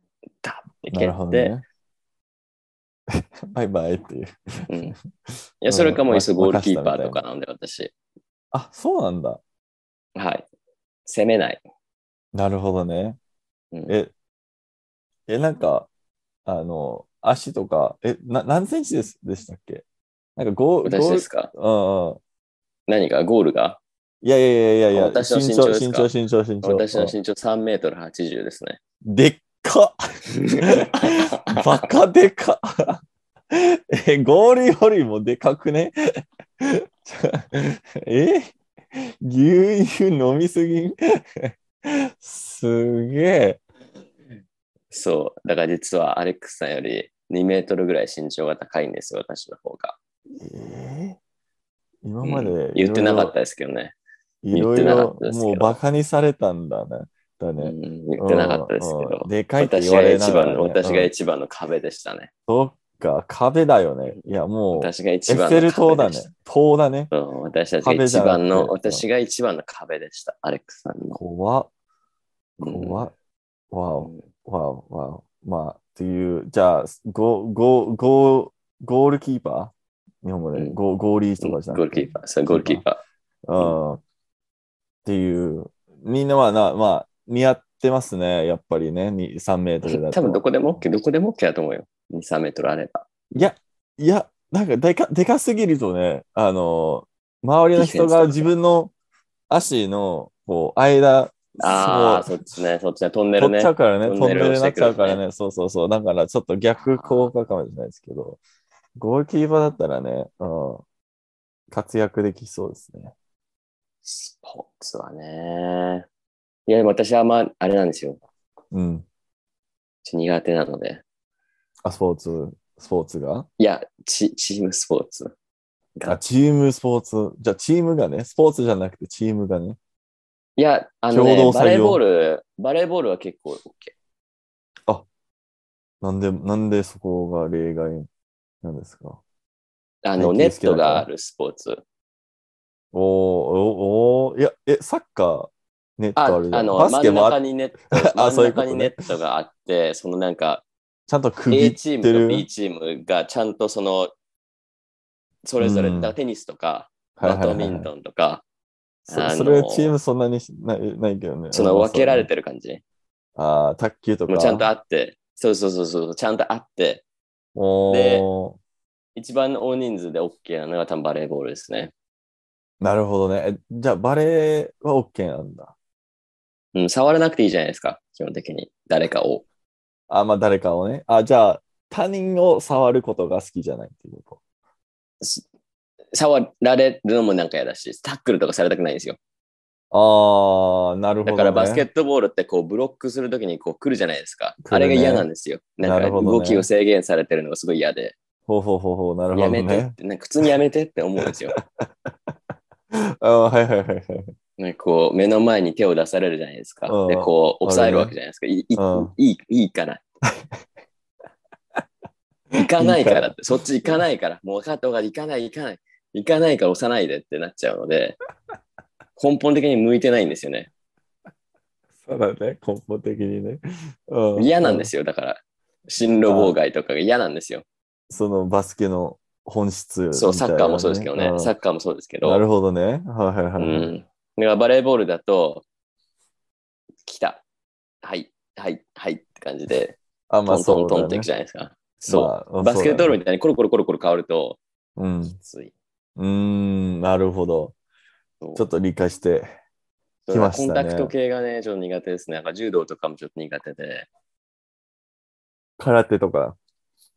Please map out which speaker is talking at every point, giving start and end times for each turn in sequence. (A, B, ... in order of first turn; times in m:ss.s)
0:00.4-0:01.5 A
0:00.9-0:01.6 B
0:03.1-0:04.7 B
0:04.7-0:05.0 A
0:05.3-0:07.2 B
0:05.6-0:07.9 A
0:08.5-0:09.4 B
0:10.2-0:10.5 A
0:11.1-0:11.6 A
0:12.3-0:13.2 B
0:15.3-0:15.9 B
0:16.5-0:19.8 B
0:20.4-0:22.2 B
0:20.8-0:21.5 A
0:22.9-0:23.8 A
0:24.2-0:27.2 B
0:24.9-0:26.1 A
0:26.6-0:28.8 A
0:29.0-0:30.0 B
0:30.3-0:31.9 A
0:30.6-0:33.0 B
0:33.5-0:43.6 B
0:44.9-0:50.0 A
0:50.4-0:51.2 B
0:52.0-0:53.3 B
0:52.2-0:54.0 A
0:54.4-1:01.1 B
0:54.5-0:55.8 A
0:57.6-1:02.3 A
1:02.5-1:07.1 B
1:04.8-1:06.3 A
1:07.1-1:11.2 A
1:07.8-1:09.0 B
1:11.2-1:11.7 B
1:12.6-1:13.1 A
1:12.6-1:13.1 B
1:13.7-1:22.8 B
1:21.4-1:23.0 A
1:23.5-1:24.0 B
1:25.0-1:30.4 B
1:29.8-1:33.5 A
1:33.3-1:38.9 B
1:37.8-1:38.5 A
1:39.5-1:42.3 B
1:41.6-1:45.2 A
1:43.4-1:48.4 B
1:46.8-1:47.3 A
1:49.0-1:50.8 B
1:51.7-1:53.1 B
1:54.0-1:56.1 A
1:56.7-1:58.2 A
1:58.7-1:59.1 B
2:00.0-2:01.0 A
2:01.8-2:03.5 B
2:03.6-2:05.3 A
2:06.0-2:09.8 B
2:10.6-2:13.9 A
2:11.1-2:12.0 B
2:16.0-2:18.1 B
2:18.6-2:19.2 B
2:20.0-2:21.8 A
2:20.2-2:21.1 B
2:22.9-2:27.4 B
2:26.2-2:30.6 A
2:27.9-2:29.0 B
2:31.1-2:32.5 B
2:31.5-2:34.1 A
2:35.4-2:38.4 A
2:35.6-2:36.2 B
2:37.2-2:37.9 B
2:39.1-2:42.3 B
2:39.1-2:40.0 A
2:41.5-2:42.8 A
2:43.4-2:44.7 B
2:44.3-2:47.0 A
2:47.6-2:48.6 B
2:47.9-2:48.3 A
2:49.2-2:51.9 A
2:52.8-2:55.8 B
2:56.7-2:59.4 A
3:00.1-3:04.4 B
3:06.1-3:09.2 A
3:09.9-3:11.9 B
3:11.2-3:18.2 A
3:14.6-3:15.3 B
3:15.8-3:16.7 B
3:18.5-3:20.0 B
3:19.3-3:21.6 A
3:22.9-3:24.3 B
3:24.6-3:30.0 A
3:26.9-3:28.2 B
3:28.8-3:29.1 B
3:32.5-3:33.4 B
3:32.6-3:38.2 A
3:39.2-3:40.7 A
3:42.0-3:44.9 B
3:44.4-3:47.6 A
3:46.3-3:46.6 B
3:48.1-3:51.5 B
3:50.1-3:52.4 A
3:52.2-3:53.9 B
3:53.6-3:55.6 A
3:57.0-3:57.4 A
3:58.0-4:04.6 A
4:00.3-4:01.3 B
4:02.1-4:03.2 B
4:05.0-4:05.4 B
4:05.2-4:05.7 A
4:06.2-4:07.8 B
4:08.4-4:08.7 A
4:08.6-4:09.5 B
4:10.3-4:14.1 A
4:10.3-4:11.1 B
4:15.8-4:16.6 B